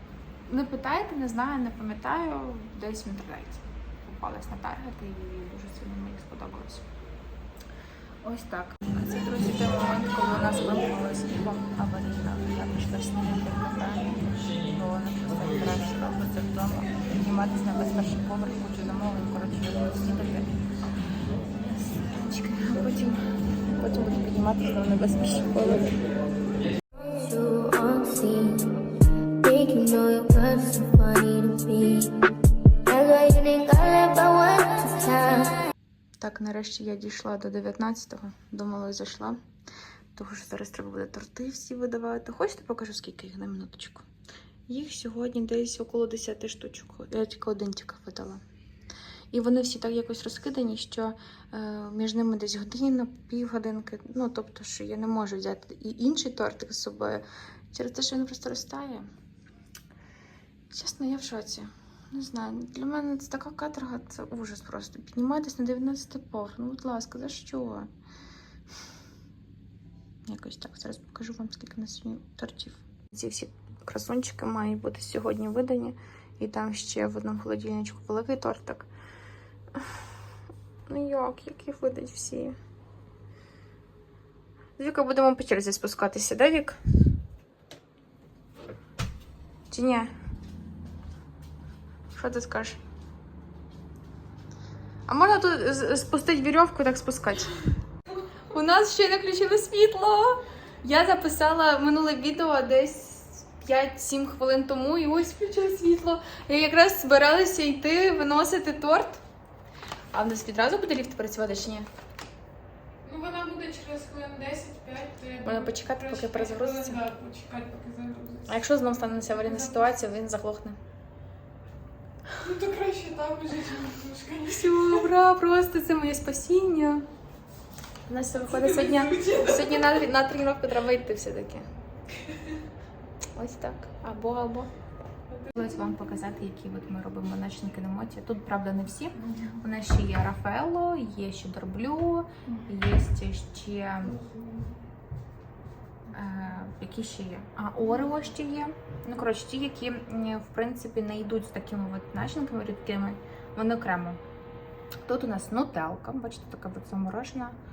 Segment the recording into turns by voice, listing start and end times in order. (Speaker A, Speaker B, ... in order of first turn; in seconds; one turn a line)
Speaker A: 0.5-6.8
Speaker A: 8.2-20.5
Speaker A: 21.6-26.0
Speaker B: 26.9-32.2
Speaker B: 32.9-35.6
Speaker A: 36.2-39.4
Speaker A: 40.1-44.1
Speaker A: 44.7-48.4
Speaker A: 49.3-59.1
Speaker A: 60.7-67.9
Speaker A: 70.3-78.9
Speaker A: 80.9-82.6
Speaker A: 84.8-86.8
Speaker A: 89.7-90.1
Speaker A: 92.1-92.8
Speaker A: 95.1-97.5
Speaker A: 98.5-109.2
Speaker A: 110.1-111.9
Speaker C: 113.0-118.6
Speaker A: 115.4-117.0
Speaker A: 118.5-120.8
Speaker C: 119.3-120.0
Speaker C: 122.4-125.1
Speaker A: 124.5-127.1
Speaker A: 128.1-131.7
Speaker C: 128.5-129.9
Speaker A: 133.3-134.7
Speaker C: 135.3-135.9
Speaker A: 135.5-144.2
Speaker C: 139.3-139.5
Speaker C: 144.0-144.8
Speaker A: 146.1-154.2
Speaker A: 155.1-157.6